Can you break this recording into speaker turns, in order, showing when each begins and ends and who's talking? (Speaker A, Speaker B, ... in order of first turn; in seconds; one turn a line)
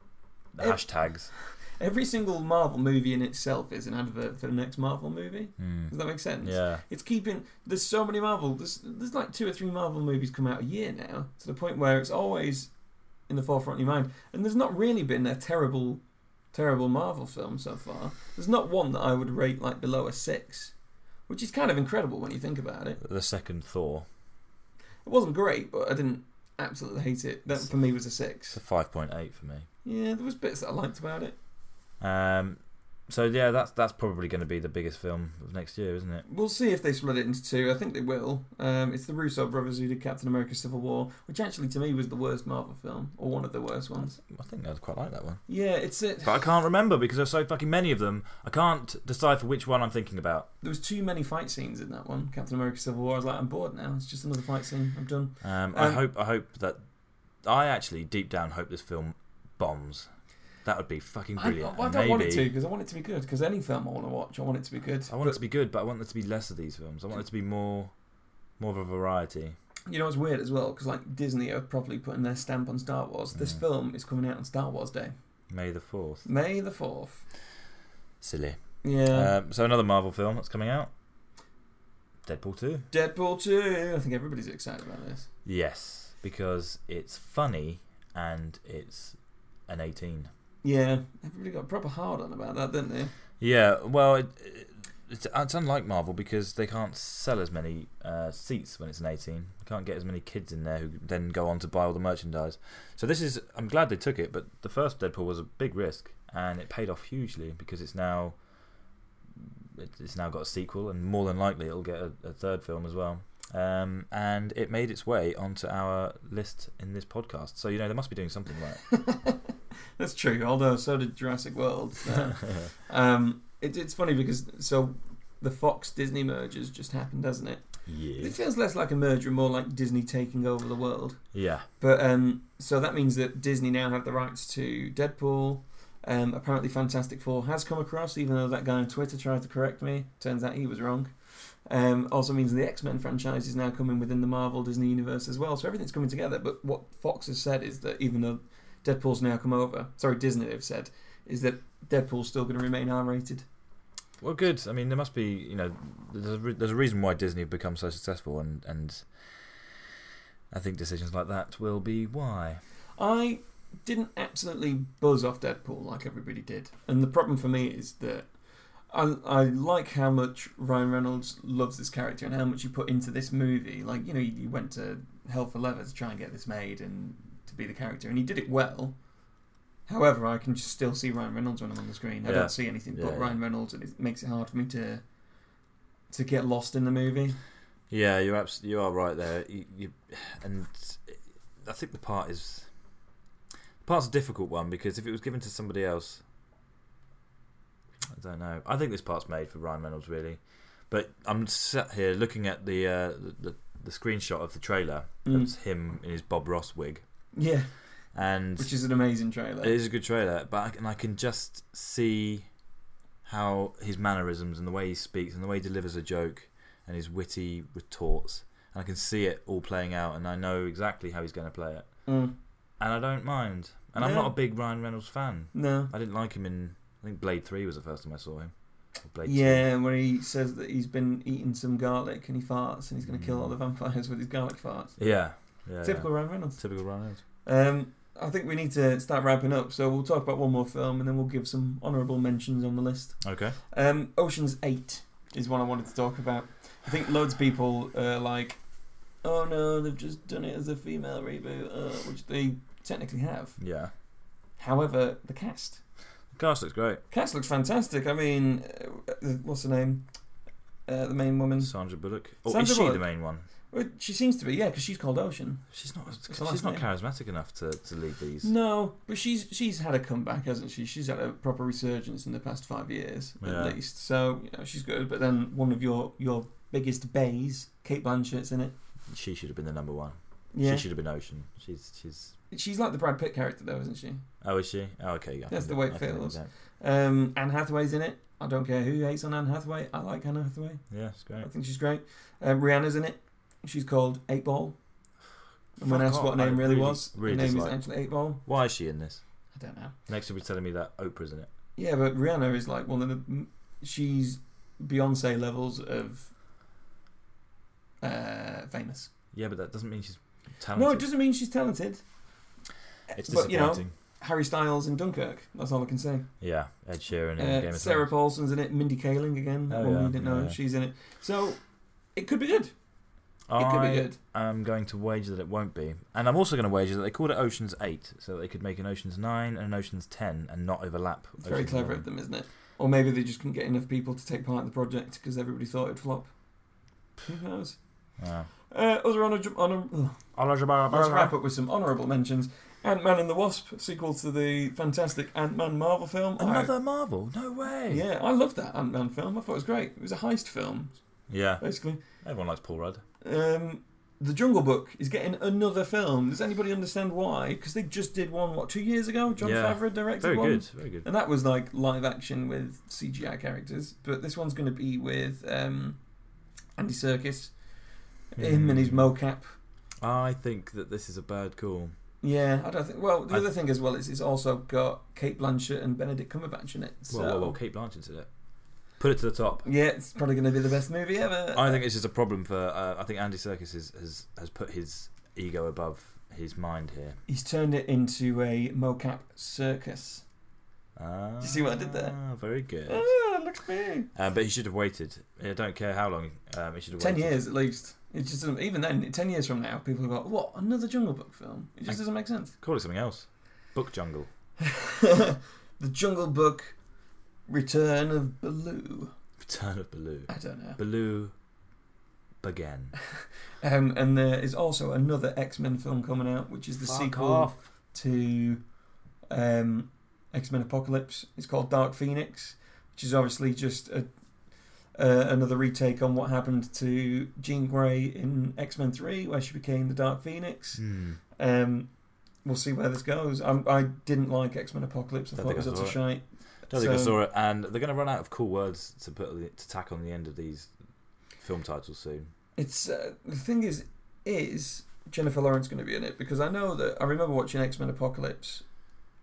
Speaker A: 0.5-1.3
Speaker B: 0.6-12.7
Speaker A: 5.6-6.8
Speaker B: 13.3-16.0
Speaker B: 16.5-20.7
Speaker B: 21.3-23.0
Speaker A: 23.0-24.1
Speaker B: 25.0-28.6
Speaker A: 28.5-29.6
Speaker B: 29.8-31.4
Speaker A: 32.0-36.2
Speaker B: 36.2-44.2
Speaker A: 44.2-45.4
Speaker B: 45.5-46.3
Speaker A: 46.2-50.5
Speaker B: 50.6-56.0
Speaker A: 55.4-56.8
Speaker A: 57.4-60.1
Speaker A: 60.6-62.5
Speaker B: 61.4-65.4
Speaker A: 65.1-67.9
Speaker A: 68.6-69.5
Speaker B: 69.9-75.1
Speaker A: 73.3-73.6
Speaker A: 75.5-76.2
Speaker B: 76.2-77.2
Speaker A: 78.2-80.9
Speaker B: 78.8-79.3
Speaker A: 82.2-82.9
Speaker B: 82.9-85.3
Speaker A: 85.4-89.2
Speaker A: 89.7-90.3
Speaker B: 90.6-93.1
Speaker A: 93.4-108.4
Speaker A: 109.4-118.9
Speaker B: 118.9-119.4
Speaker B: 120.0-131.2
Speaker A: 122.4-122.7
Speaker A: 127.8-128.4
Speaker A: 131.3-131.7
Speaker B: 131.8-153.4
Speaker A: 154.2-159.6
Speaker A: 160.5-162.6
Speaker B: 163.0-168.3
Speaker B: 168.9-178.9
Speaker B: 179.9-185.0
Speaker A: 182.2-183.3
Speaker B: 186.1-187.4
Speaker A: 187.9-192.7
Speaker A: 193.8-196.2
Speaker A: 198.1-207.0
Speaker B: 205.2-205.5
Speaker B: 207.3-207.7
Speaker A: 208.1-208.7
Speaker B: 208.6-209.7
Speaker A: 209.6-212.5
Speaker A: 213.2-222.0
Speaker B: 222.1-222.3
Speaker A: 222.8-229.6
Speaker B: 224.0-224.3
Speaker B: 225.5-225.9
Speaker B: 229.2-235.0
Speaker A: 233.1-233.5
Speaker A: 235.0-237.2
Speaker B: 235.8-248.6
Speaker A: 243.2-243.6
Speaker B: 249.2-253.6
Speaker A: 253.6-253.9
Speaker B: 254.6-255.8
Speaker A: 256.3-257.0
Speaker B: 257.1-260.0
Speaker B: 260.9-261.7
Speaker A: 261.6-263.4
Speaker B: 262.5-263.1
Speaker B: 263.7-266.8
Speaker A: 265.7-268.5
Speaker B: 268.4-278.7
Speaker A: 273.4-273.8
Speaker A: 279.1-282.3
Speaker B: 280.5-280.8
Speaker B: 282.5-284.2
Speaker A: 284.4-286.5
Speaker B: 285.5-290.9
Speaker A: 290.9-291.5
Speaker B: 291.4-294.8
Speaker B: 295.8-298.4
Speaker A: 295.8-297.8
Speaker A: 298.4-299.2
Speaker B: 299.5-299.9
Speaker A: 300.1-301.5
Speaker B: 301.8-306.3
Speaker B: 308.0-309.1
Speaker A: 309.3-311.1
Speaker B: 310.7-312.0
Speaker B: 313.1-316.3
Speaker A: 313.1-313.9
Speaker A: 316.4-318.1
Speaker B: 317.4-321.6
Speaker A: 319.7-320.6
Speaker B: 322.1-322.7
Speaker A: 323.5-332.0
Speaker B: 323.6-324.2
Speaker B: 331.4-336.3
Speaker B: 337.2-337.8
Speaker A: 338.2-338.5
Speaker B: 338.7-340.3
Speaker A: 340.3-341.4
Speaker B: 340.9-346.7
Speaker A: 346.4-348.0
Speaker B: 347.9-351.0
Speaker A: 351.3-353.0
Speaker B: 351.6-352.0
Speaker B: 353.2-366.0
Speaker A: 359.4-361.1
Speaker B: 366.8-367.5
Speaker B: 368.3-369.5
Speaker A: 368.4-369.1
Speaker A: 370.0-371.9
Speaker B: 372.2-377.6
Speaker A: 377.1-378.3
Speaker A: 379.0-379.7
Speaker B: 379.6-381.8
Speaker A: 381.5-387.2
Speaker B: 387.3-390.2
Speaker A: 390.9-393.1
Speaker B: 391.4-392.1
Speaker B: 392.9-394.1
Speaker A: 394.1-397.4
Speaker B: 397.0-402.5
Speaker A: 401.9-404.3
Speaker B: 404.6-406.8
Speaker B: 407.5-409.1
Speaker A: 409.4-411.3
Speaker B: 410.3-410.8
Speaker A: 412.4-412.9
Speaker B: 413.6-418.6
Speaker A: 416.9-417.6
Speaker B: 419.3-424.1
Speaker B: 424.9-430.8
Speaker A: 430.8-431.2
Speaker B: 431.4-431.9
Speaker B: 432.4-437.1
Speaker A: 435.3-436.0
Speaker A: 436.7-440.7
Speaker A: 441.4-442.3
Speaker B: 442.6-448.6